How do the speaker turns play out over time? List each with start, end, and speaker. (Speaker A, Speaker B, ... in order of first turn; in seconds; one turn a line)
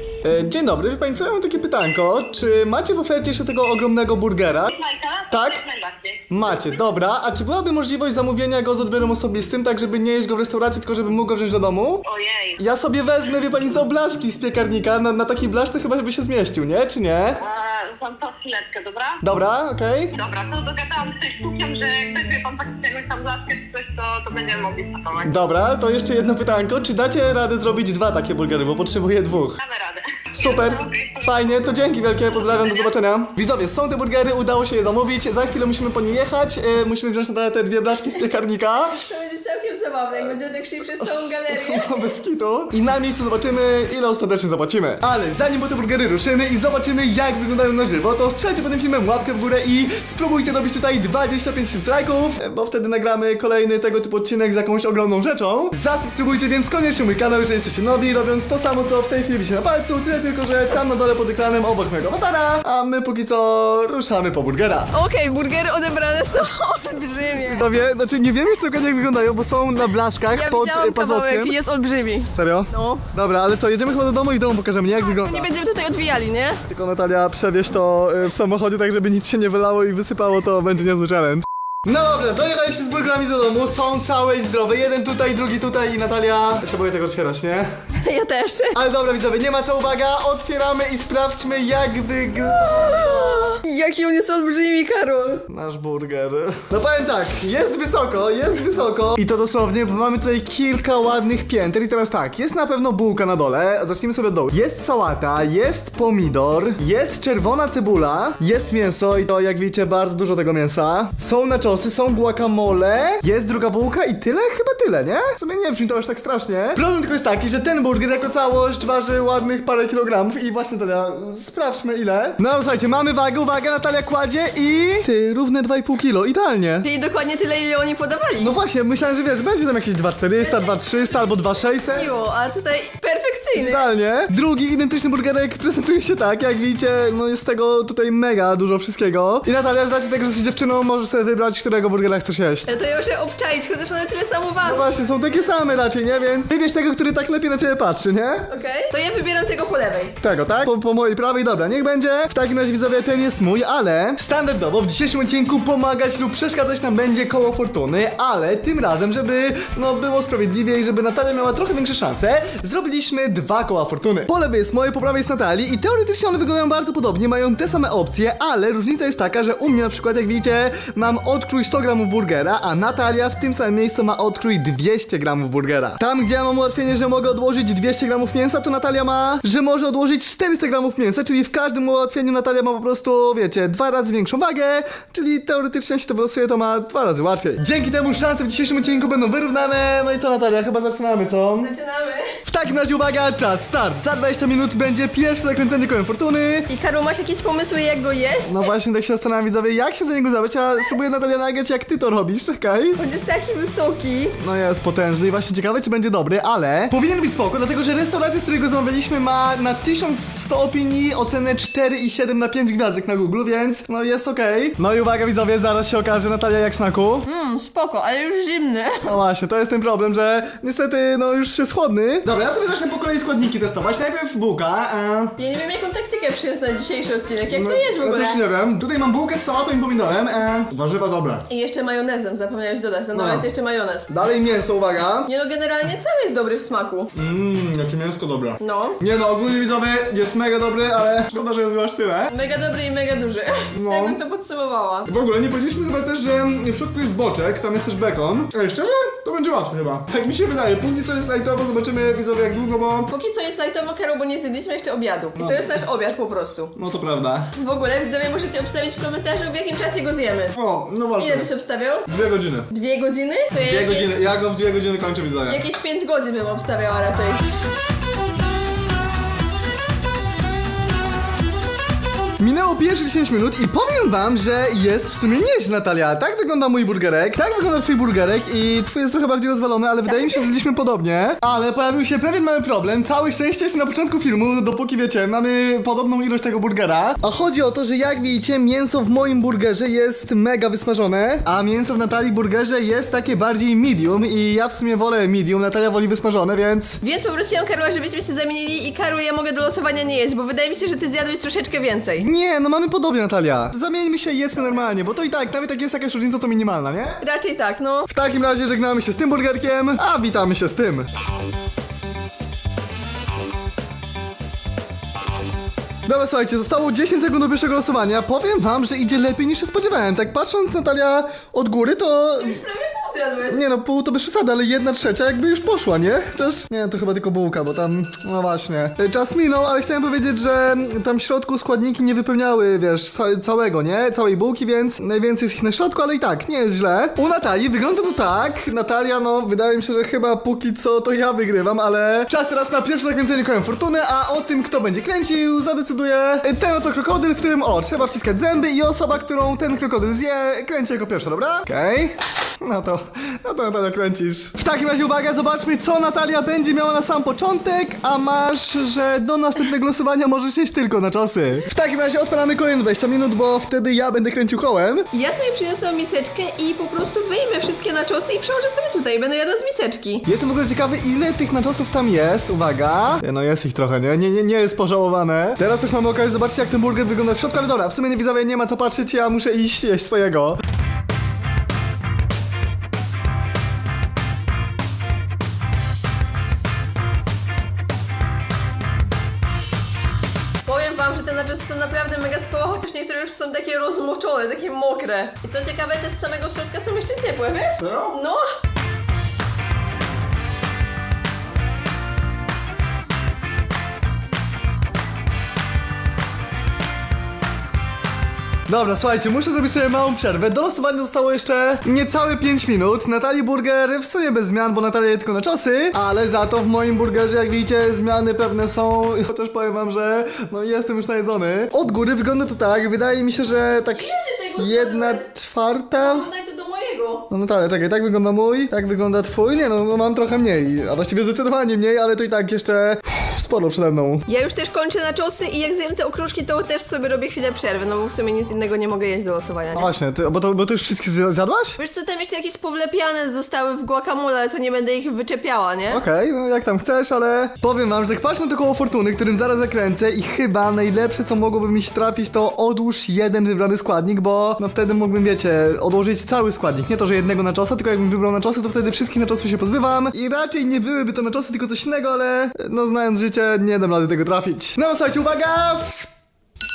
Speaker A: 0.2-4.8
Speaker B: 4.7-6.3
Speaker A: 5.3-5.7
Speaker A: 6.3-12.0
Speaker B: 12.1-12.6
Speaker A: 12.6-17.4
Speaker B: 17.4-19.2
Speaker A: 19.2-20.1
Speaker B: 20.1-25.3
Speaker A: 25.2-29.6
Speaker B: 29.6-31.7
Speaker A: 30.3-39.0
Speaker C: 38.0-38.3
Speaker C: 38.9-42.2
Speaker A: 41.5-64.9
Speaker C: 64.9-67.7
Speaker A: 67.5-71.6
Speaker C: 70.3-73.1
Speaker A: 72.3-75.5
Speaker C: 75.0-76.6
Speaker A: 76.7-87.7
Speaker C: 88.0-88.8
Speaker A: 88.7-93.5
Speaker C: 92.4-95.4
Speaker A: 95.5-126.9
Speaker C: 126.8-128.6
Speaker A: 128.4-132.1
Speaker C: 130.4-133.9
Speaker A: 133.6-142.7
Speaker C: 142.7-144.9
Speaker A: 144.6-148.5
Speaker C: 148.5-150.2
Speaker A: 150.2-191.7
Speaker C: 191.6-192.4
Speaker A: 192.4-196.7
Speaker C: 196.7-198.7
Speaker A: 198.4-203.0
Speaker C: 203.0-204.4
Speaker A: 204.4-217.3
Speaker C: 217.3-219.2
Speaker A: 219.0-225.3
Speaker C: 225.4-228.4
Speaker A: 227.5-231.5
Speaker C: 231.5-234.1
Speaker A: 233.1-233.5
Speaker A: 234.1-235.3
Speaker C: 235.3-237.1
Speaker A: 237.2-242.3
Speaker C: 238.6-239.0
Speaker C: 242.3-245.1
Speaker A: 243.8-244.2
Speaker A: 245.1-253.1
Speaker C: 253.1-256.8
Speaker A: 255.4-255.7
Speaker A: 256.8-257.5
Speaker C: 257.6-260.6
Speaker A: 260.6-261.5
Speaker C: 261.2-262.1
Speaker A: 262.1-262.7
Speaker C: 262.7-264.3
Speaker A: 263.6-265.6
Speaker C: 265.5-267.5
Speaker A: 272.4-297.0
Speaker C: 280.1-280.5
Speaker C: 297.0-302.3
Speaker A: 302.2-307.2
Speaker C: 307.2-308.1
Speaker A: 308.1-311.1
Speaker A: 316.1-322.6
Speaker C: 322.4-323.6
Speaker A: 323.5-365.1
Speaker C: 365.1-370.3
Speaker A: 370.2-380.6
Speaker C: 390.6-398.4
Speaker A: 397.8-398.1
Speaker A: 408.7-426.3
Speaker C: 423.9-425.2
Speaker C: 426.0-427.3
Speaker A: 427.3-434.2
Speaker C: 434.3-439.9
Speaker A: 439.7-441.8
Speaker C: 441.8-446.0
Speaker A: 445.9-466.1